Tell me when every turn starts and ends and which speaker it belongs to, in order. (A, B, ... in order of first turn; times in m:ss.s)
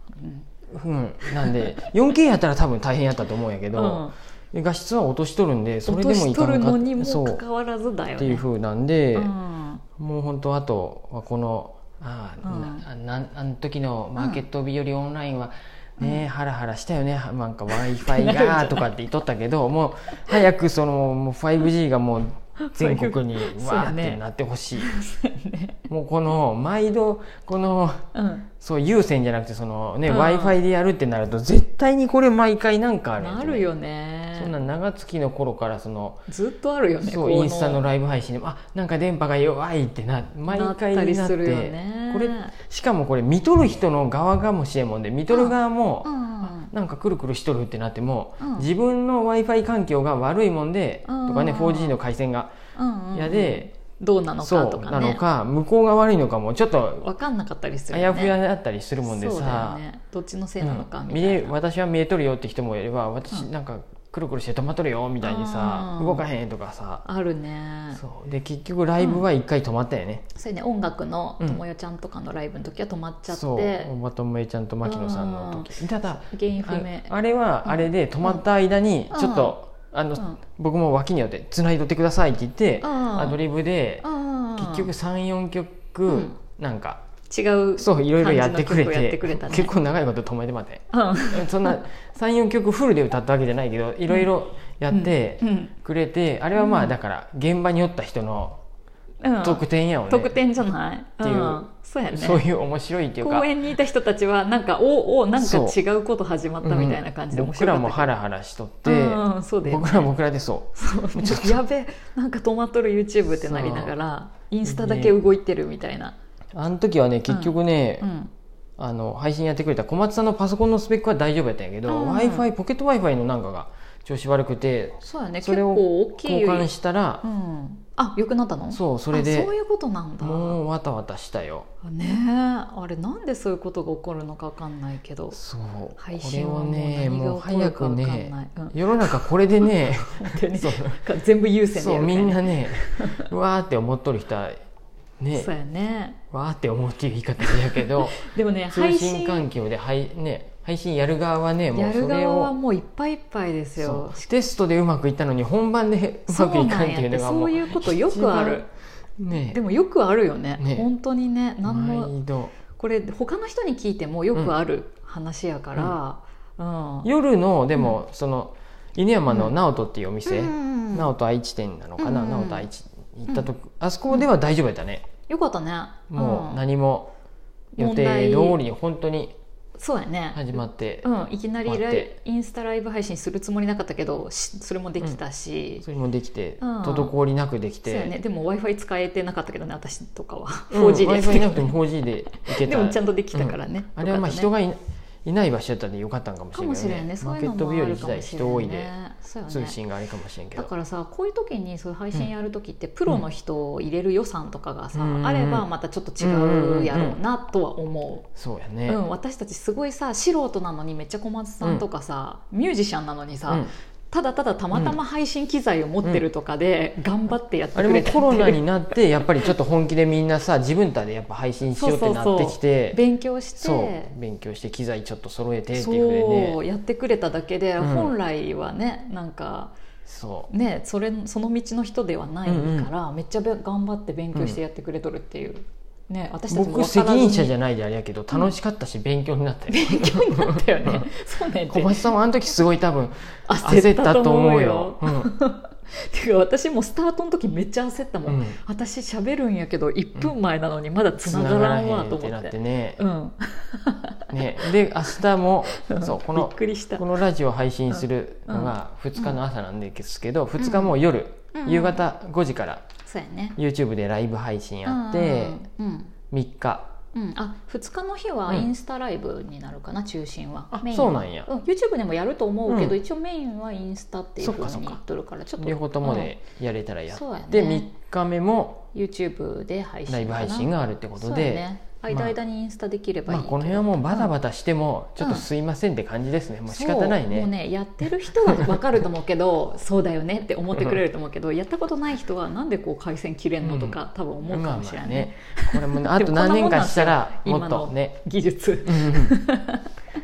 0:00.2-0:00.5 A
0:00.7-0:07.4 B
0:01.2-0:01.9 A
0:03.7-0:04.2 A
0:05.9-0:08.5 A
0:08.2-0:09.3 B
0:09.2-0:09.8 A
0:10.0-0:24.9 B
0:12.4-0:12.9 A
0:14.2-0:14.4 A
0:16.0-0:16.2 A
0:17.7-0:18.9 A
0:22.6-0:24.2 A
0:24.8-0:25.9 A
0:25.9-0:28.1 B
0:28.2-0:28.5 A
0:28.6-0:33.7 B
0:30.1-0:30.6 A
0:33.2-0:34.6 A
0:34.3-0:36.2 B
0:36.3-0:37.9 A
0:37.0-0:52.6 B
0:40.5-0:42.6 A
0:45.3-0:46.7 A
0:48.4-0:48.7 A
0:51.1-0:52.0 A
0:52.8-0:55.2 A
0:53.1-0:53.7 B
0:54.4-0:57.1 B
0:57.0-0:58.4 A
0:57.9-0:59.8 B
0:59.0-1:01.6 A
1:00.6-1:07.0 B
1:05.2-1:06.2 A
1:07.0-1:08.0 A
1:07.9-1:10.2 B
1:09.0-1:09.2 A
1:10.4-1:13.9 A
1:13.3-1:27.0 B
1:14.8-1:17.1 A
1:17.6-1:18.4 A
1:19.1-1:19.6 A
1:22.8-1:23.4 A
1:24.0-1:24.9 A
1:26.1-1:26.4 A
1:27.3-1:29.7 A
1:27.8-1:38.6 B
1:30.9-1:31.8 A
1:34.9-1:35.7 A
1:36.6-1:37.0 A
1:39.2-1:42.4 A
1:39.4-1:40.4 B
1:41.2-1:43.5 B
1:43.2-1:48.1 A
1:45.4-1:45.8 B
1:46.6-1:51.6 B
1:48.8-1:50.1 A
1:50.8-1:56.2 A
1:53.3-1:54.0 B
1:54.7-1:55.2 B
1:56.6-1:58.1 B
1:57.3-1:58.3 A
1:58.8-2:07.2 B
2:01.9-2:02.5 A
2:05.0-2:06.7 A
2:07.2-2:10.6 A
2:08.7-2:09.5 B
2:10.2-2:11.7 B
2:11.8-2:15.4 A
2:15.3-2:21.0 B
2:16.0-2:23.3 A
2:21.7-2:24.6 B
2:25.2-2:25.5 B
2:25.3-2:26.2 A
2:26.3-2:32.5 B
2:27.4-2:29.5 A
2:31.7-2:34.2 A
2:33.8-2:38.6 B
2:36.3-2:38.7 A
2:39.2-2:39.6 B
2:39.5-2:42.1 A
2:40.6-2:40.9 B
2:41.6-2:42.6 B
2:42.7-2:47.1 A
2:47.0-2:55.1 B
2:49.3-2:49.5 A
2:50.3-2:51.1 A
2:52.0-2:52.7 A
2:55.3-2:56.7 A
2:56.1-2:57.1 B
2:57.8-2:58.6 A
2:57.8-2:59.4 B
2:59.8-3:05.8 A
3:00.4-3:01.1 B
3:01.6-3:02.1 B
3:05.8-3:08.1 B
3:06.6-3:07.1 A
3:07.8-3:14.5 A
3:10.7-3:18.9 B
3:16.5-3:19.8 A
3:19.5-3:20.7 B
3:20.6-3:28.3 A
3:24.9-3:25.7 B
3:26.2-3:27.2 B
3:28.4-3:29.0 B
3:28.9-3:38.6 A
3:34.7-3:35.0 B
3:37.8-3:43.0 B
3:41.7-3:44.1 A
3:43.6-3:46.6 B
3:45.7-3:49.8 A
3:47.8-3:48.1 B
3:50.1-3:50.5 B
3:50.5-3:57.5 A
3:52.5-3:52.9 B
3:54.3-3:54.6 B
3:56.5-4:01.1 B
3:59.7-4:02.1 A
4:01.7-4:05.3 B
4:03.5-4:15.2 A
4:08.2-4:08.6 B
4:11.2-4:13.0 B
4:14.3-4:22.8 B
4:15.7-4:17.1 A
4:17.9-4:19.4 A
4:20.6-4:21.0 A
4:21.5-4:22.0 A
4:23.0-4:23.6 A
4:23.6-4:25.6 B
4:24.9-4:26.1 A
4:26.3-4:27.0 B
4:27.1-4:36.4 A
4:30.7-4:31.5 B
4:32.7-4:33.0 B
4:34.4-4:35.0 B
4:35.6-4:38.9 B
4:37.1-4:37.9 A
4:38.9-4:44.3 A
4:40.1-4:42.4 B
4:43.3-4:47.5 B
4:45.2-4:45.5 A
4:46.7-4:59.9 A
4:48.5-4:48.8 B
4:53.6-4:58.2 B
4:58.8-4:59.4 B